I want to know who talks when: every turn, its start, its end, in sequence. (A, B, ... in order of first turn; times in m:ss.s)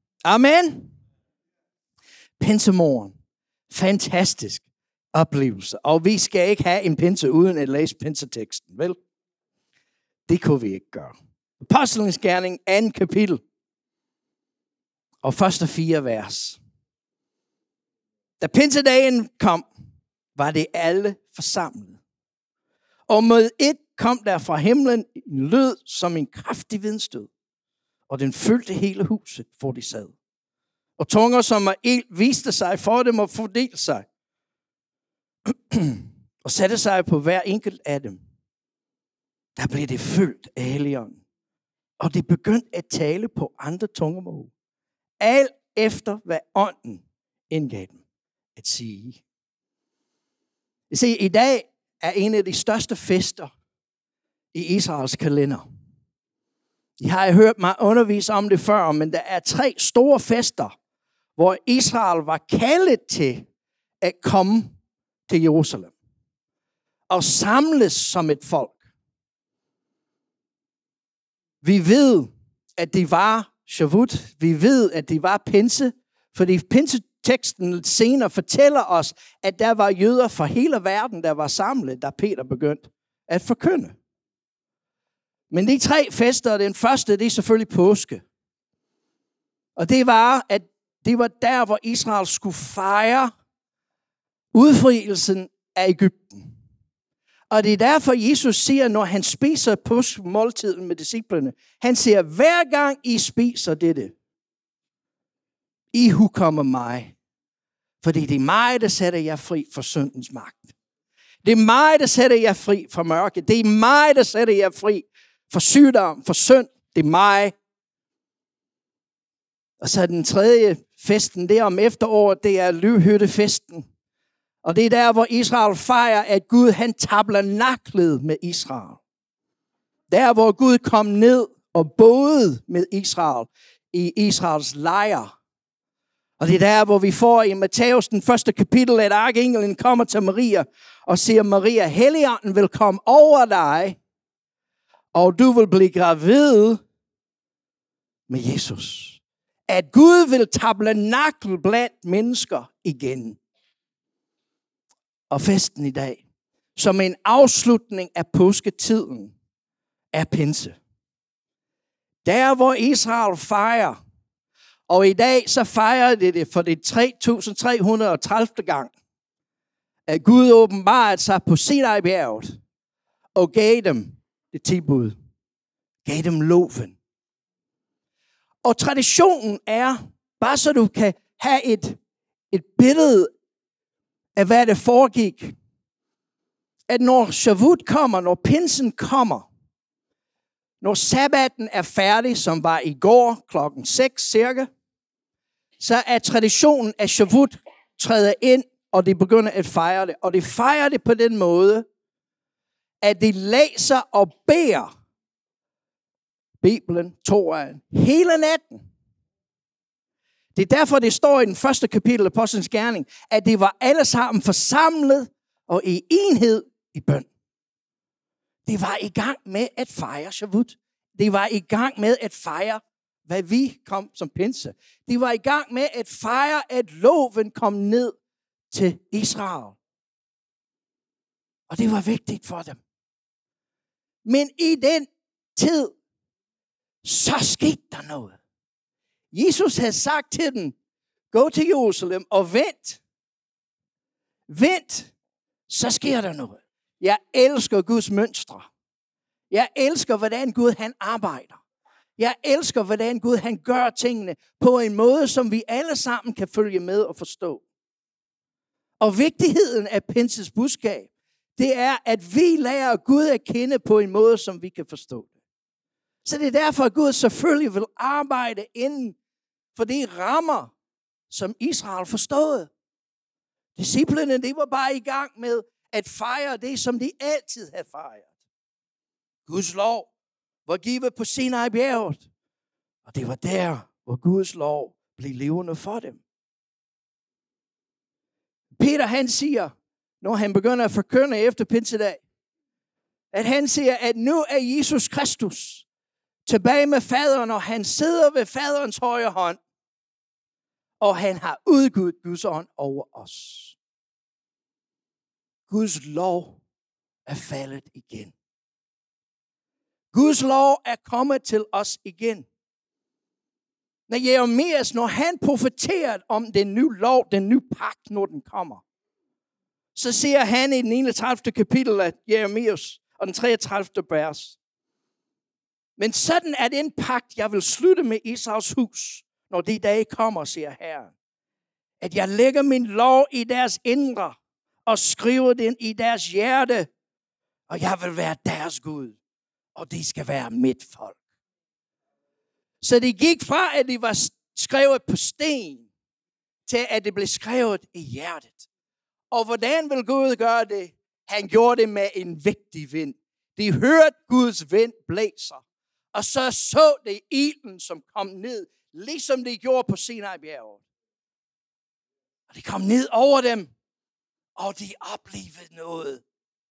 0:00.2-0:00.9 A
0:02.4-0:03.1 A
0:03.7-0:04.6 A
0:05.2-0:09.0 A
0:10.3-0:13.4 A
0:15.2-0:16.6 A
0:18.4-0:19.7 A
0:20.4-0:22.0 A
0:23.1-0:27.3 A
0:28.1-0:30.1 A
0:31.0-0:34.0 A
0:35.5-0:38.2 A
0:39.6-0:41.2 A
0:42.0-0:44.5 A
0:45.2-0:48.0 A
0:48.6-0:49.2 A
0:50.9-0:53.5 A
0:54.5-0:55.7 A
0:57.0-1:00.7 A
1:01.4-1:03.5 A
1:04.0-1:04.7 A
1:05.3-1:05.9 A
1:07.1-1:08.8 A
1:11.6-1:24.0 A
1:25.5-1:28.2 A
1:29.8-1:33.3 A
1:34.5-1:36.5 A
1:37.5-1:44.1 A
1:45.9-1:47.1 A
1:48.0-1:50.7 A
1:51.4-1:57.5 A
1:59.8-2:03.9 A
2:04.6-2:09.0 A
2:10.1-2:15.3 A
2:16.4-2:24.0 A
2:25.1-2:26.8 A
2:28.3-2:33.4 A
2:35.3-2:36.2 A
2:36.8-2:39.3 A
2:40.1-2:40.8 A
2:42.2-2:44.0 A
2:44.9-2:48.9 A
2:50.1-2:52.6 A
2:53.4-2:55.1 A
2:56.0-2:57.0 A
2:58.6-3:02.0 A
3:02.5-3:03.3 A
3:04.4-3:05.5 A
3:06.9-3:09.5 A
3:10.8-3:14.7 A
3:15.8-3:21.9 A
3:23.0-3:24.9 A
3:26.6-3:28.8 A
3:30.6-3:37.3 A
3:38.7-3:48.2 A
3:48.7-3:49.8 A
3:51.7-3:52.8 A
3:54.2-3:56.0 A
3:57.0-3:58.4 A
3:59.3-4:00.8 A
4:01.3-4:03.0 A
4:04.5-4:05.1 A
4:05.7-4:08.7 A
4:09.5-4:11.6 A
4:12.2-4:17.6 A
4:19.0-4:25.3 A
4:26.2-4:29.2 A
4:29.8-4:30.7 A
4:31.3-4:32.7 A
4:33.8-4:38.3 A
4:39.5-4:40.1 A
4:40.7-4:42.2 A
4:43.1-4:46.2 A
4:48.8-4:52.2 A
4:53.3-4:55.8 A
4:56.5-4:59.6 A
5:01.0-5:03.8 A
5:05.7-5:06.6 A
5:07.3-5:08.3 A
5:10.1-5:12.5 A
5:14.1-5:18.8 A
5:20.0-5:24.6 A
5:26.0-5:31.1 A
5:32.0-5:36.9 A
5:37.7-5:39.2 A
5:39.8-5:41.2 A
5:42.8-5:45.9 A
5:46.7-5:48.7 A
5:49.3-5:55.6 A
5:56.1-6:00.8 A
6:02.5-6:03.7 A
6:04.6-6:06.2 A